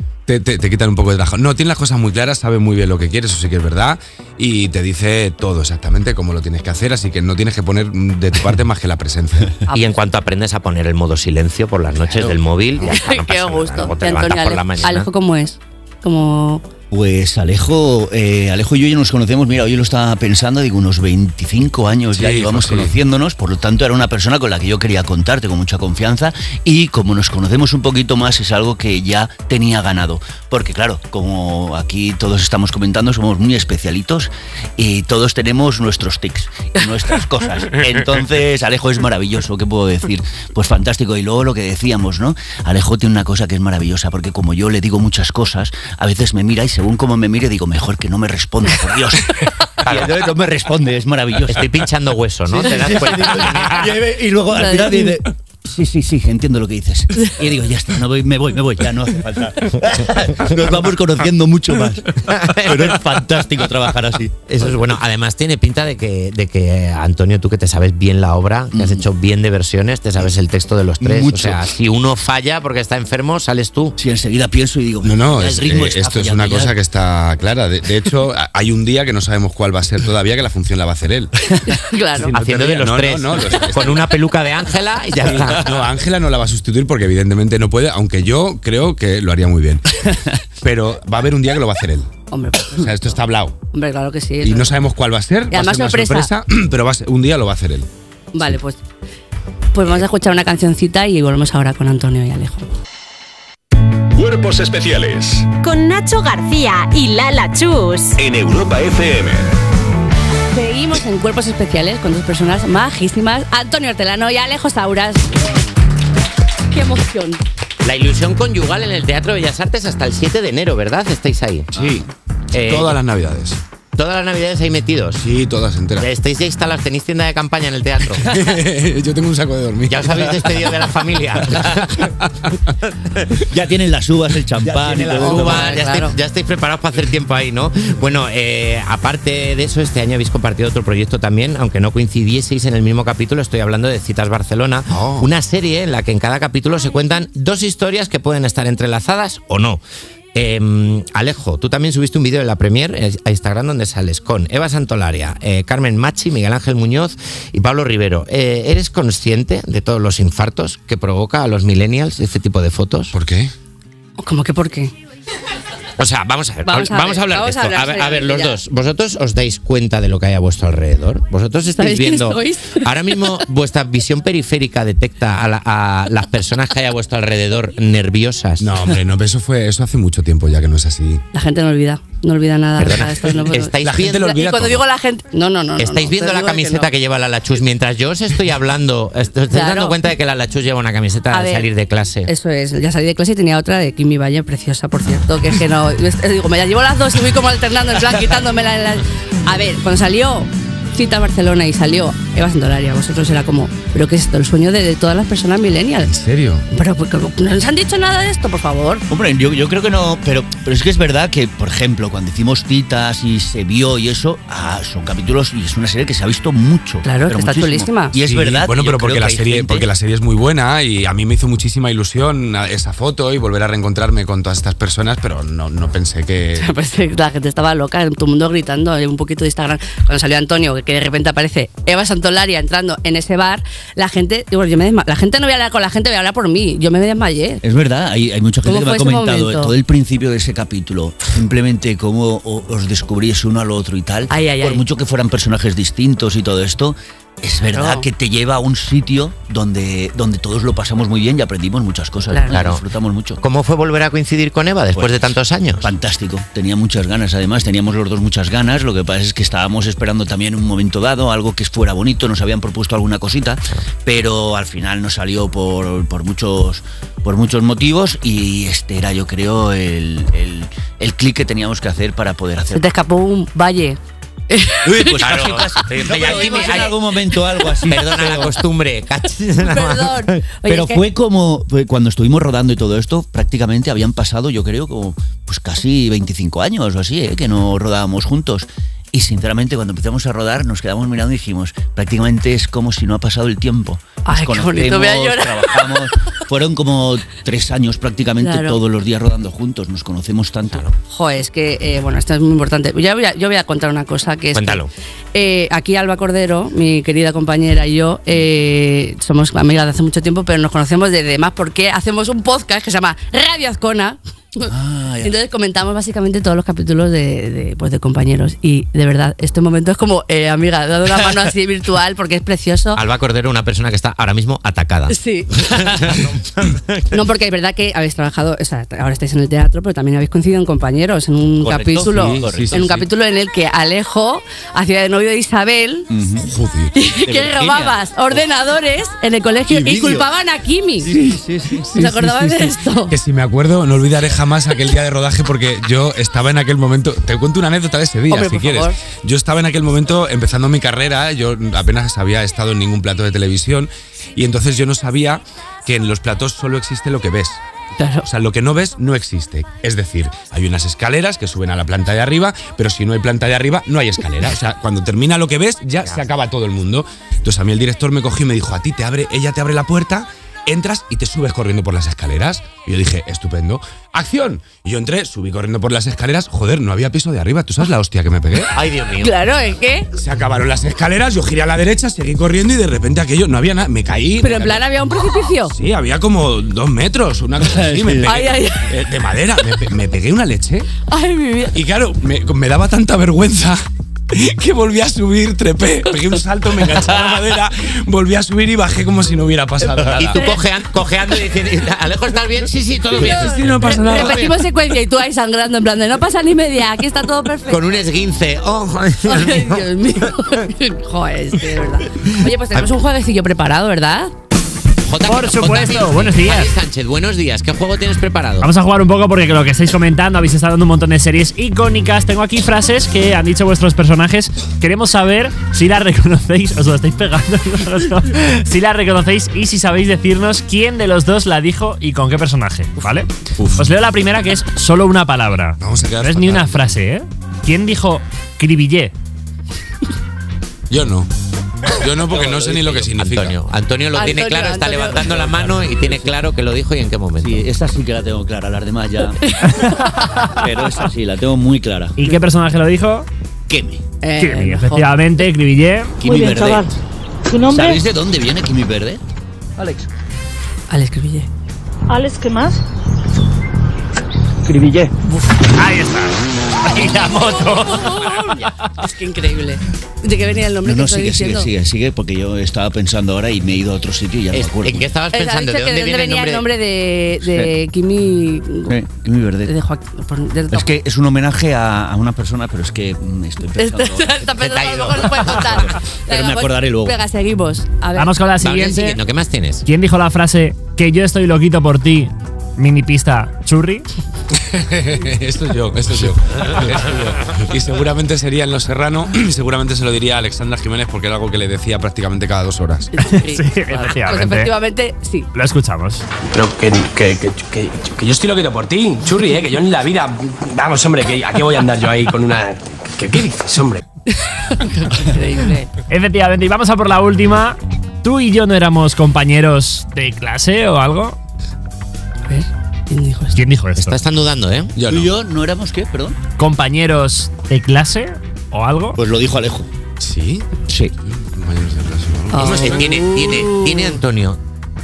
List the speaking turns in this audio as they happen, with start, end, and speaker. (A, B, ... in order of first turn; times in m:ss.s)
0:00.3-0:09.6 A
0:09.7-0:15.1 B
0:12.8-0:16.6 C
0:16.9-0:51.8 D
0:22.1-0:23.0 A
0:49.8-0:50.1 B
0:51.5-0:53.9 B
0:52.5-1:04.3 D
0:54.6-0:55.2 C
1:02.2-1:03.0 B
1:04.5-1:14.0 B
1:08.7-1:09.0 D
1:11.0-1:11.6 D
1:14.0-1:16.8 D
1:15.0-1:21.3 A
1:21.6-1:22.3 C
1:22.2-1:24.0 A
1:22.3-1:25.7 B
1:25.3-1:30.1 A
1:30.6-1:32.1 A
1:32.3-1:32.9 C
1:32.7-1:33.6 A
1:33.7-1:34.8 C
1:34.4-1:37.9 A
1:35.5-1:36.3 C
1:38.3-1:38.8 C
1:39.7-1:42.7 C
1:44.2-1:45.5 E
1:45.6-1:48.2 F
1:48.2-1:49.5 E
1:50.5-1:55.4 C
1:56.7-1:57.4 C
1:57.8-2:01.7 B
2:01.8-2:03.6 A
2:02.5-2:03.0 B
2:03.9-2:05.2 B
2:05.2-2:06.1 A
2:06.0-2:08.3 B
2:08.2-2:10.6 A
2:09.9-2:12.1 B
2:12.2-2:12.5 A
2:13.4-2:15.8 D
2:14.6-2:29.8 B
2:15.2-2:16.2 C
2:24.9-2:25.3 A
2:30.3-2:43.1 B
2:43.1-2:43.5 A
2:44.2-2:44.9 C
2:46.0-2:58.7 B
2:46.6-2:48.6 C
2:51.8-2:52.9 C
2:58.6-3:01.2 A
3:01.3-3:06.9 C
3:02.8-3:04.3 B
3:03.8-3:04.8 A
3:05.8-3:12.3 B
3:09.5-3:10.0 C
3:11.3-3:11.7 C
3:12.2-3:26.1 C
3:26.0-3:26.7 A
3:26.7-3:29.0 C
3:29.1-3:39.9 D
3:37.0-3:38.2 C
3:38.2-3:46.7 A
3:46.6-3:57.6 C
3:57.6-4:13.4 D
3:58.6-3:59.7 C
4:04.3-4:04.8 C
4:07.7-4:08.1 C
4:12.3-4:12.6 C
4:12.5-4:12.8 B
4:13.4-4:15.9 B
4:14.9-4:15.2 D
4:15.8-4:32.9 D
4:32.7-4:34.0 C
4:34.5-4:35.2 C
4:34.8-4:38.6 D
4:35.2-4:37.0 B
4:36.2-4:36.8 C
4:37.8-4:40.4 B
4:39.6-4:41.0 C
4:40.7-5:00.8 D
4:54.2-4:56.0 C
4:58.4-4:58.8 C
5:01.1-5:14.7 C
5:04.5-5:04.9 B
5:14.7-5:15.3 D
5:15.2-5:23.0 C
5:22.9-5:27.2 B
5:25.1-5:25.9 C
5:27.1-5:36.1 C
5:31.6-5:32.9 D
5:32.0-5:33.1 A
5:36.1-5:36.4 D
5:36.4-5:37.0 A
5:36.9-5:41.1 C
5:37.2-5:38.4 D
5:39.7-5:40.3 D
5:41.0-5:41.9 D
5:41.8-5:57.6 A
5:41.9-5:43.1 C
5:48.3-5:49.0 C
5:58.0-5:58.3 C
5:58.2-6:18.7 A
6:18.7-6:19.3 B
6:19.2-6:20.1 C
6:20.2-6:24.8 A
6:24.4-6:25.7 C
6:25.7-6:30.9 A
6:27.6-6:28.4 D
6:28.2-6:29.0 C
6:31.1-6:31.8 C
6:31.7-6:33.8 A
6:34.3-6:40.4 A
6:39.8-6:44.6 B
6:40.3-6:40.6 C
6:43.2-6:48.0 C
6:43.2-6:44.4 A
6:47.7-6:49.8 B
6:49.2-6:54.3 C
6:55.0-6:58.7 B
6:55.2-6:56.7 G
6:58.6-7:19.1 G
7:13.6-7:13.8 A
7:15.8-7:17.0 A
7:20.9-7:21.3 A
7:21.9-7:23.6 A
7:22.2-7:22.7 D
7:22.6-7:27.7 B
7:24.1-7:25.3 C
7:25.4-7:26.3 D
7:27.4-7:29.5 D
7:29.4-7:30.3 C
7:30.5-7:32.2 D
7:32.2-7:33.3 G
7:33.7-7:34.0 D
7:34.2-7:35.4 C
7:34.4-7:36.2 G
7:36.2-7:37.0 D
7:36.3-7:36.9 H
7:37.5-7:38.0 H
7:37.7-7:39.2 D
7:40.9-7:41.5 C
7:42.1-7:42.8 H
7:44.7-7:45.1 H
7:45.7-7:48.2 G
7:46.9-7:51.7 C
7:50.8-7:55.1 D
7:54.5-7:56.7 B
7:55.3-7:58.9 C
7:58.9-7:59.7 D
7:59.6-8:00.9 C
8:00.7-8:04.4 D
8:03.8-8:08.3 C
8:04.6-8:05.4 B
8:05.3-8:07.2 D
8:08.2-8:09.2 G
8:08.6-8:09.8 B
8:09.8-8:14.1 G
8:14.7-8:23.1 A
8:23.1-8:25.5 C
8:23.3-8:24.7 G
8:25.5-8:26.2 G
8:26.5-8:34.0 I
8:34.5-8:35.9 C
8:36.1-8:41.4 G
8:42.5-8:43.6 C
8:43.5-8:44.2 G
8:44.0-8:44.9 B
8:45.0-8:45.3 A
8:45.1-8:46.4 D
8:46.6-8:49.2 G
8:49.2-8:49.9 D
8:50.2-8:50.7 A
8:50.9-8:51.1 D
8:51.3-8:53.2 A
8:52.5-8:53.7 C
8:52.8-8:54.6 B